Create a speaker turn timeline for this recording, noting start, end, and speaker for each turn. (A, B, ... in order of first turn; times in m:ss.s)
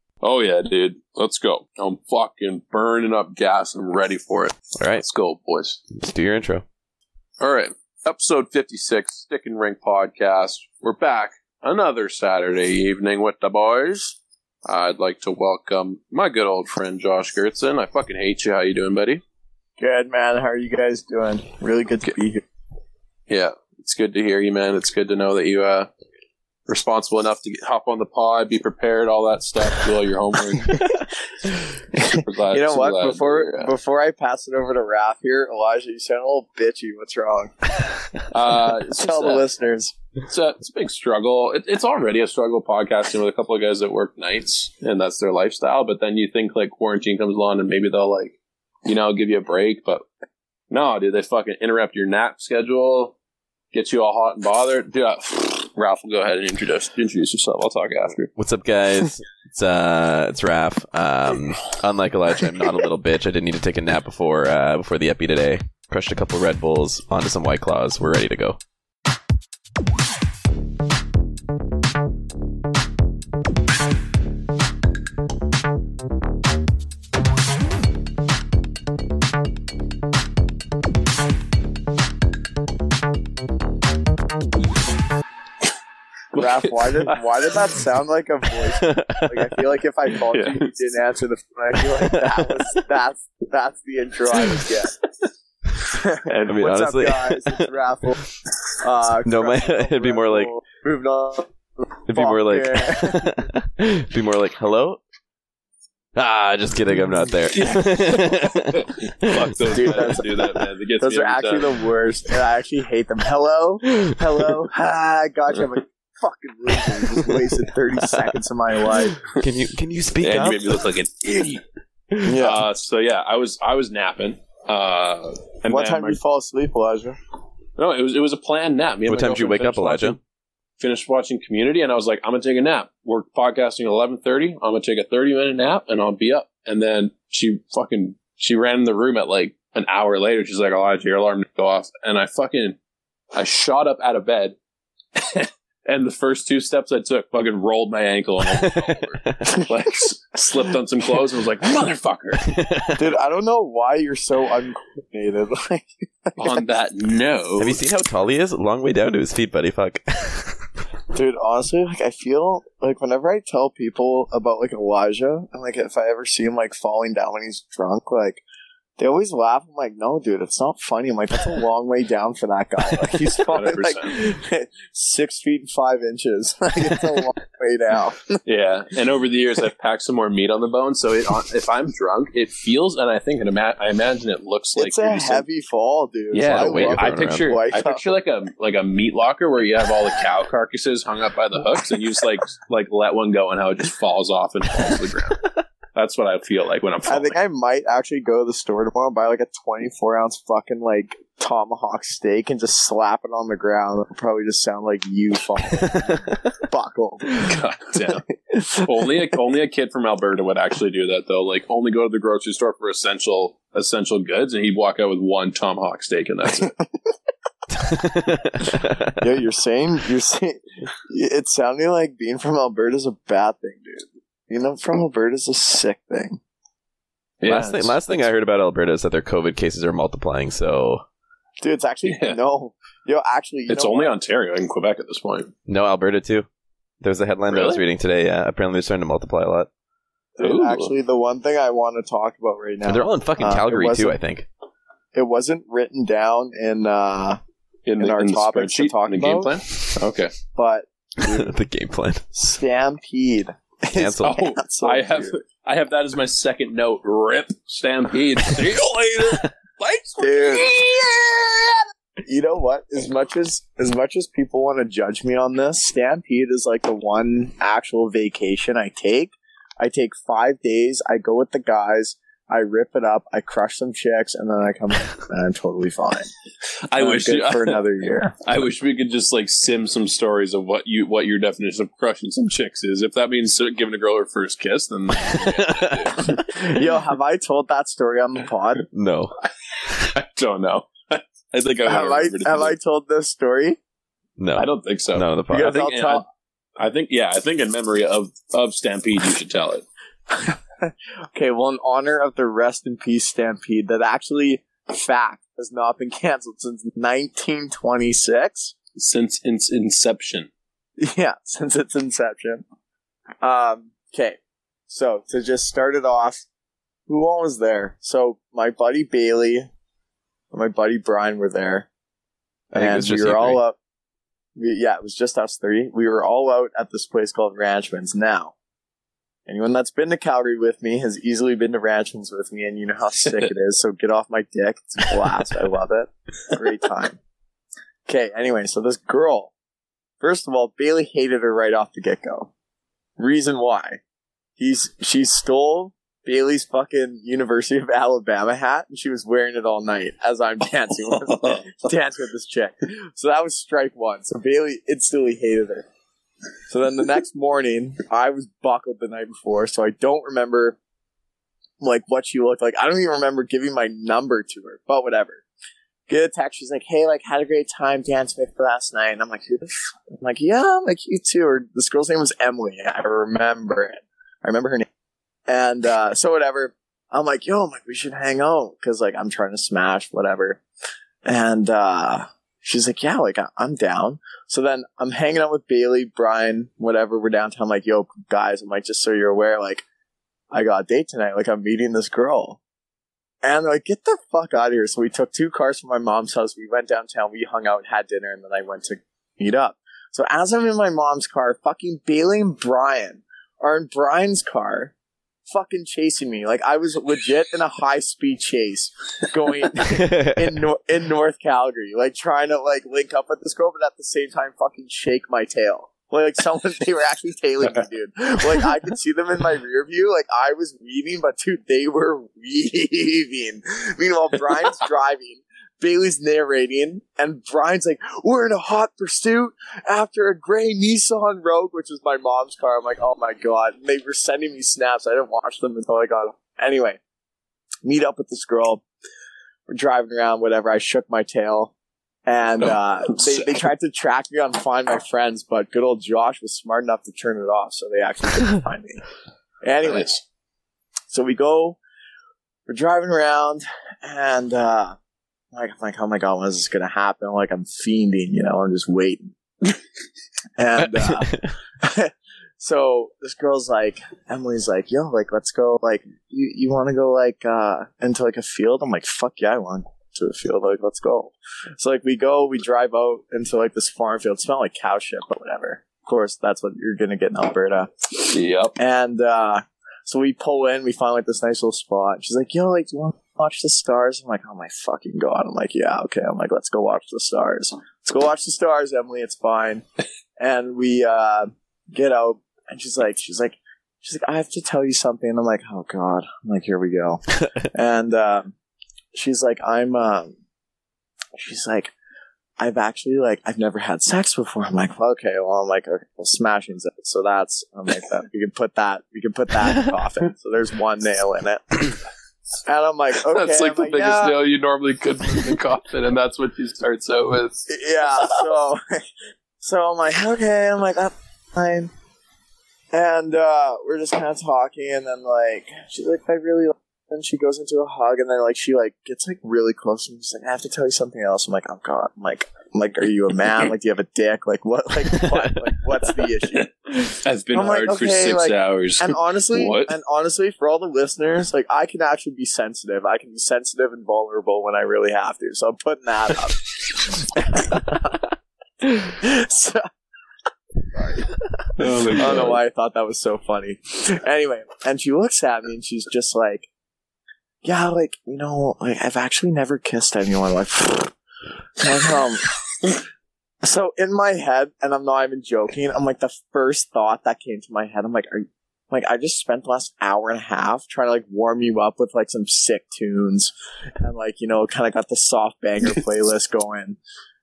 0:00.2-0:05.8 A
0:04.8-0:05.0 B
0:05.9-0:06.6 B
0:07.4-0:19.2 A
0:19.8-0:22.4 C
0:23.3-0:25.9 A
0:26.7-0:30.8 A
0:30.6-0:37.7 C
0:32.0-0:33.7 A
0:38.3-0:39.4 A
0:39.0-0:39.9 C
0:40.2-0:50.1 A
0:50.7-0:53.1 A
0:53.7-0:58.3 A
0:58.4-1:08.6 B
1:26.3-1:27.2 A
1:26.4-1:35.0 C
1:28.8-1:29.6 B
1:30.3-1:30.7 A
1:32.0-1:32.8 B
1:35.9-1:38.2 C
1:36.2-1:36.7 A
1:36.5-1:37.7 B
1:38.7-1:41.5 C
1:39.2-1:40.5 B
1:42.1-1:45.0 B
1:42.1-1:43.3 C
1:46.1-1:50.2 B
1:47.5-1:51.7 A
1:49.7-1:50.3 C
1:51.0-1:59.2 C
1:54.0-1:54.5 B
1:59.2-2:00.8 B
2:00.2-2:01.6 A
2:02.2-2:02.6 C
2:02.2-2:06.2 A
2:05.7-2:07.2 C
2:07.8-2:10.2 A
2:09.1-2:10.2 B
2:10.8-2:22.8 A
2:23.3-2:24.6 A
2:25.2-2:32.6 A
2:28.6-2:29.5 B
2:32.4-2:33.0 B
2:32.9-2:36.6 C
2:36.4-2:37.8 A
2:37.6-2:40.7 B
2:41.1-2:48.4 C
2:49.0-2:58.4 C
2:53.5-2:54.2 A
2:58.4-3:05.4 A
3:04.8-3:08.1 C
3:06.3-3:15.4 A
3:06.4-3:07.4 B
3:15.9-3:17.4 A
3:17.1-3:27.4 C
3:25.8-3:26.5 B
3:27.4-3:36.7 A
3:28.5-3:29.0 C
3:37.8-3:39.2 B
3:39.2-3:46.4 C
3:47.4-3:48.0 A
3:47.4-3:51.0 B
3:51.6-3:54.1 C
3:52.0-3:52.4 A
3:53.7-3:55.5 A
3:55.7-3:56.5 B
3:57.0-3:59.7 B
3:57.5-3:57.8 A
4:00.4-4:04.2 C
4:00.4-4:00.9 A
4:02.8-4:04.5 B
4:05.1-4:07.4 C
4:07.8-4:10.3 A
4:08.0-4:09.6 C
4:10.5-4:11.5 C
4:11.2-4:12.3 B
4:12.4-4:15.3 C
4:13.9-4:14.4 B
4:14.2-4:21.5 A
4:20.2-4:20.8 C
4:22.2-4:36.3 C
4:36.8-4:37.8 A
4:37.0-4:38.4 C
4:38.4-4:46.4 A
4:45.3-4:46.3 B
4:46.3-4:48.9 C
4:48.9-4:50.1 B
4:50.1-4:52.8 A
4:51.8-4:53.8 C
4:54.4-4:55.8 B
4:54.6-4:56.2 A
4:55.5-4:56.2 C
4:56.8-4:59.8 A
5:00.3-5:08.7 C
5:09.0-5:10.5 A
5:11.0-5:12.6 C
5:13.4-5:14.4 C
5:14.9-5:16.4 C
5:17.1-5:19.7 C
5:20.5-5:21.9 C
5:22.7-5:23.6 B
5:22.7-5:23.8 C
5:24.6-5:28.5 C
5:29.5-5:37.2 C
5:38.1-5:39.5 C
5:40.2-5:42.5 C
5:43.2-5:44.0 C
5:44.6-5:55.9 C
5:51.1-5:51.9 A
5:56.7-6:00.8 C
6:01.8-6:05.4 C
6:06.1-6:14.8 C
6:15.5-6:20.6 C
6:21.2-6:29.8 C
6:30.5-6:32.6 C
6:33.4-6:44.9 C
6:45.5-7:17.0 C
6:50.0-6:50.3 B
7:17.8-7:18.8 C
7:19.7-7:21.7 C
7:22.2-7:29.0 C
7:29.6-7:30.1 C
7:29.8-7:30.2 A
7:31.1-7:31.8 C
7:32.7-7:35.0 C
7:35.5-7:39.3 C
7:40.6-8:09.8 C
7:41.0-7:41.5 B
7:58.3-7:58.7 A
8:10.4-8:18.5 C
8:19.1-8:20.3 C
8:21.4-8:21.9 C
8:22.6-8:32.0 C
8:32.6-8:34.4 C
8:33.3-8:38.4 A
8:37.7-8:39.1 C
8:39.6-8:41.9 C
8:42.9-9:08.2 C
8:55.1-8:55.6 B
8:56.5-8:59.9 A
9:08.8-9:09.9 C
9:10.9-9:11.3 C
9:11.8-9:12.6 A
9:12.1-9:16.7 C
9:17.6-9:21.1 C
9:21.8-9:22.6 C
9:23.6-9:37.0 C